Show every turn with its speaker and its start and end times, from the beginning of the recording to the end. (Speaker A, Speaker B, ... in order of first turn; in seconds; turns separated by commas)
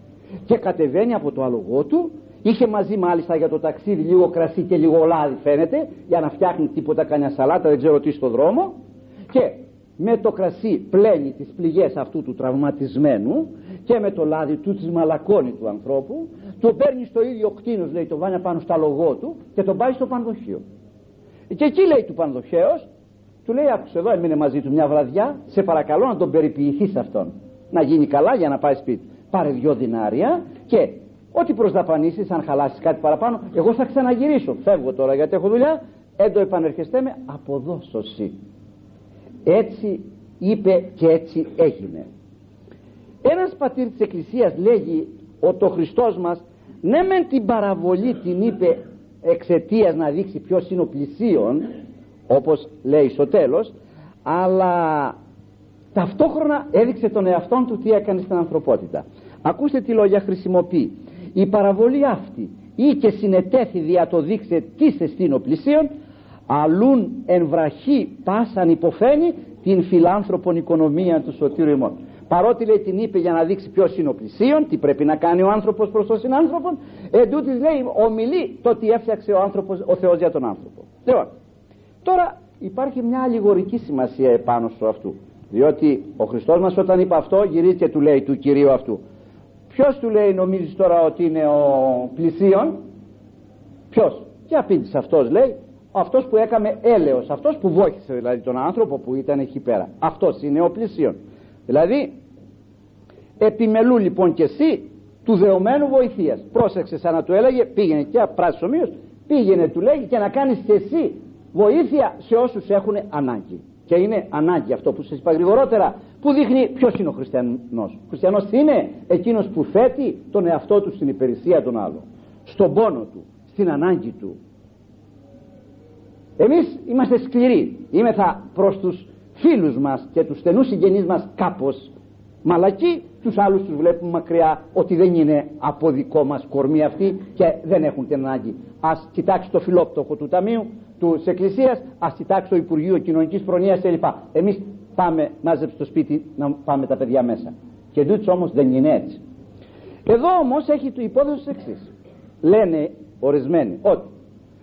Speaker A: 0.5-8.8, Speaker A: 9.3-20.6, Speaker A: 21.5-22.9, Speaker A: 23.4-38.4, Speaker A: 39.5-42.1, Speaker A: 43.2-51.7, Speaker A: 52.3-55.1, Speaker A: 55.9-65.9, Speaker A: 66.5-81.3, Speaker A: 82.0-89.0, Speaker A: 89.7-92.8, Speaker A: 93.9-102.2, Speaker A: 103.4-124.4, Speaker A: 126.4-131.9, Speaker A: 132.4-149.2, Speaker A: 150.1-151.9, Speaker A: 152.4-154.1